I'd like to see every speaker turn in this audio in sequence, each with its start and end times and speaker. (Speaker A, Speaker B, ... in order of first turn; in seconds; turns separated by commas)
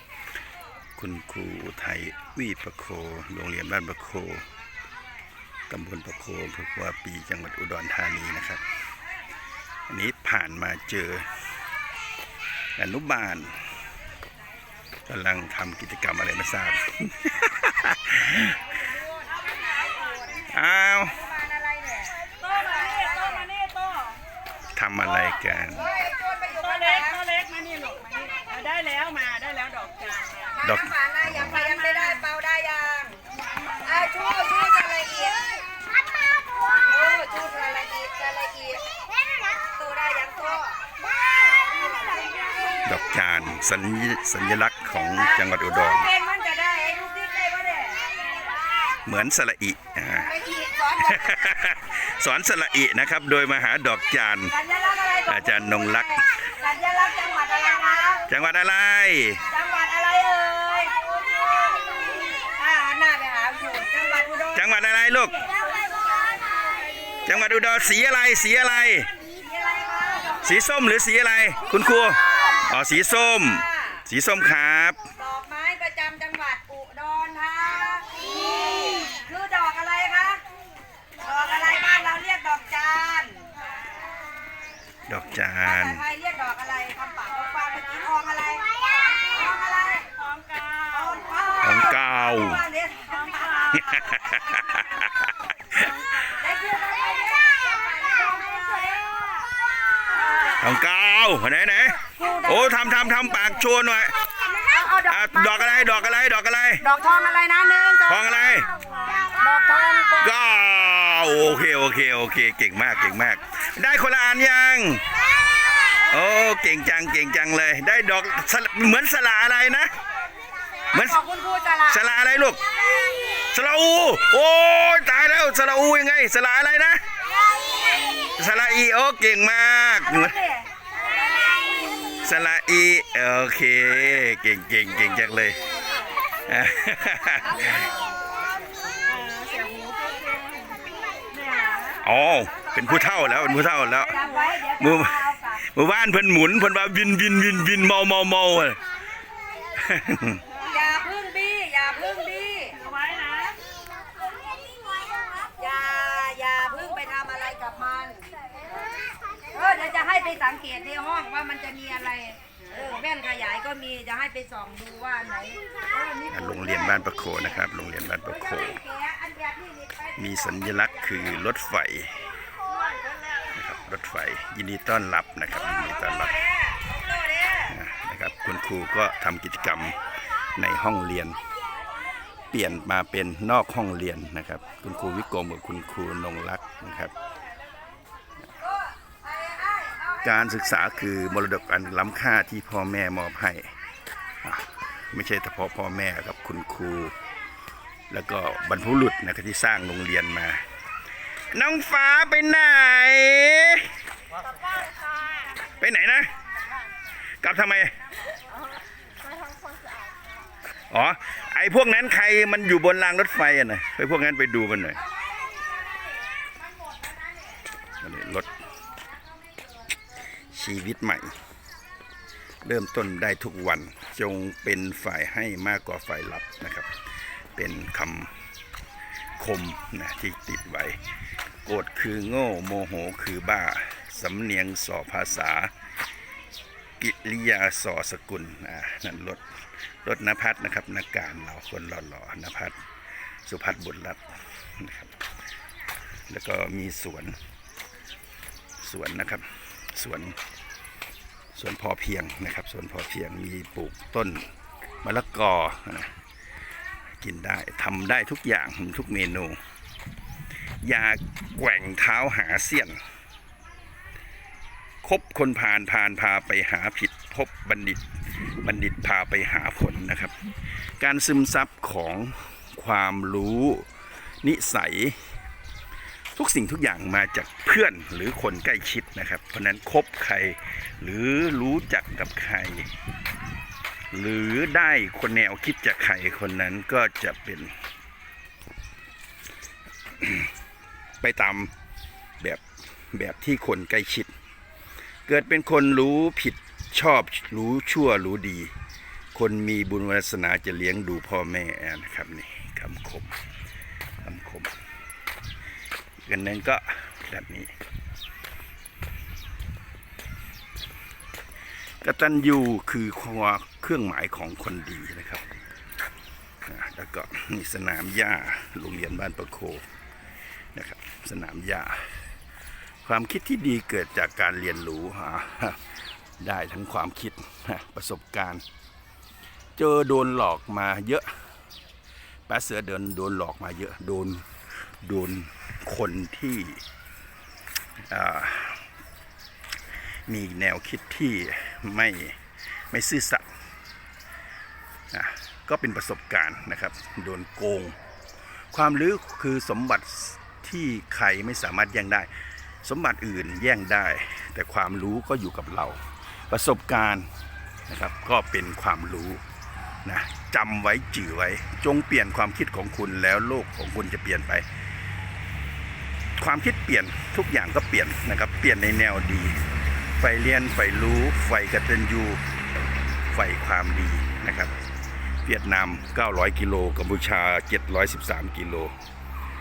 Speaker A: 0.9-4.5, Speaker A: 5.7-8.6, Speaker A: 9.9-11.5, Speaker A: 12.8-13.8, Speaker A: 15.1-18.7, Speaker B: 18.9-20.5, Speaker A: 20.5-21.2, Speaker B: 21.1-23.7, Speaker C: 23.7-24.1, Speaker A: 24.7-25.9, Speaker B: 25.7-27.4, Speaker C: 27.3-30.5, Speaker B: 30.4-35.6, Speaker A: 30.6-31.7, Speaker B: 36.7-38.9, Speaker B: 39.5-40.8, Speaker B: 41.7-42.8, Speaker A: 42.8-46.1, Speaker B: 45.1-48.2, Speaker A: 49.0-50.3, Speaker B: 50.1-51.5, Speaker A: 51.0-54.5, Speaker B: 54.5-58.2, Speaker A: 55.3-56.3, Speaker A: 58.3-59.5, Speaker B: 59.5-64.6, Speaker A: 64.5-65.4, Speaker B: 65.3-67.3, Speaker A: 67.2-69.1, Speaker B: 69.3-70.5, Speaker A: 70.4-75.1, Speaker B: 72.1-72.6, Speaker B: 73.5-74.0, Speaker B: 75.2-80.4, Speaker B: 81.2-83.7, Speaker A: 85.1-86.0, Speaker B: 85.6-94.3, Speaker A: 91.6-92.7, Speaker A: 93.7-96.2, Speaker B: 96.2-99.2, Speaker B: 100.1-100.6, Speaker A: 100.5-104.1, Speaker B: 102.2-102.8, Speaker B: 104.6-106.0, Speaker A: 105.0-106.8, Speaker B: 106.8-108.3, Speaker A: 108.0-108.7, Speaker B: 109.2-110.3, Speaker A: 110.2-115.1, Speaker A: 116.0-119.9, Speaker A: 120.9-121.2, Speaker B: 121.0-122.0, Speaker A: 121.8-122.6, Speaker A: 123.4-127.0, Speaker A: 128.3-130.4, Speaker B: 130.1-130.7, Speaker A: 132.2-135.6, Speaker A: 136.4-137.9, Speaker C: 139.1-140.8, Speaker C: 141.3-141.9, Speaker A: 141.9-148.8, Speaker B: 144.1-145.6, Speaker A: 149.7-150.5, Speaker B: 150.6-152.9, Speaker C: 152.9-153.5, Speaker B: 155.5-158.3, Speaker B: 159.5-167.1, Speaker A: 166.3-168.8, Speaker B: 168.6-170.3, Speaker A: 170.2-172.3, Speaker A: 173.5-176.5, Speaker B: 177.1-177.6, Speaker A: 177.5-181.4, Speaker A: 182.5-187.1, Speaker B: 189.0-190.1, Speaker A: 190.2-193.8, Speaker A: 194.4-197.1, Speaker A: 198.1-200.7, Speaker A: 201.5-204.0, Speaker A: 205.6-206.3, Speaker A: 207.4-208.0, Speaker A: 210.9-215.0, Speaker A: 218.0-218.6, Speaker A: 220.3-221.4, Speaker A: 222.6-226.9, Speaker A: 227.5-228.3, Speaker A: 229.4-231.0, Speaker A: 231.6-235.7, Speaker A: 237.0-242.8, Speaker A: 243.4-245.2, Speaker A: 246.3-247.4, Speaker A: 248.8-250.4, Speaker A: 251.5-256.2, Speaker A: 257.1-259.6, Speaker A: 260.8-263.0, Speaker A: 265.0-273.9, Speaker A: 274.4-275.4, Speaker A: 276.3-282.9, Speaker A: 284.1-287.8, Speaker A: 290.2-290.5, Speaker A: 291.2-291.7, Speaker A: 292.4-294.3, Speaker A: 295.3-298.7, Speaker A: 299.3-303.4, Speaker A: 304.2-304.7, Speaker A: 306.2-307.7, Speaker A: 312.0-315.4, Speaker A: 316.6-319.9, Speaker A: 320.7-322.3, Speaker A: 323.0-328.6, Speaker A: 329.8-331.4, Speaker A: 332.5-336.8, Speaker A: 338.0-338.9, Speaker A: 340.3-343.5, Speaker A: 345.1-348.0, Speaker A: 348.7-352.3, Speaker A: 352.8-357.3, Speaker A: 357.9-359.4, Speaker A: 360.0-364.7, Speaker A: 366.4-372.4, Speaker A: 373.2-374.8, Speaker A: 375.4-379.0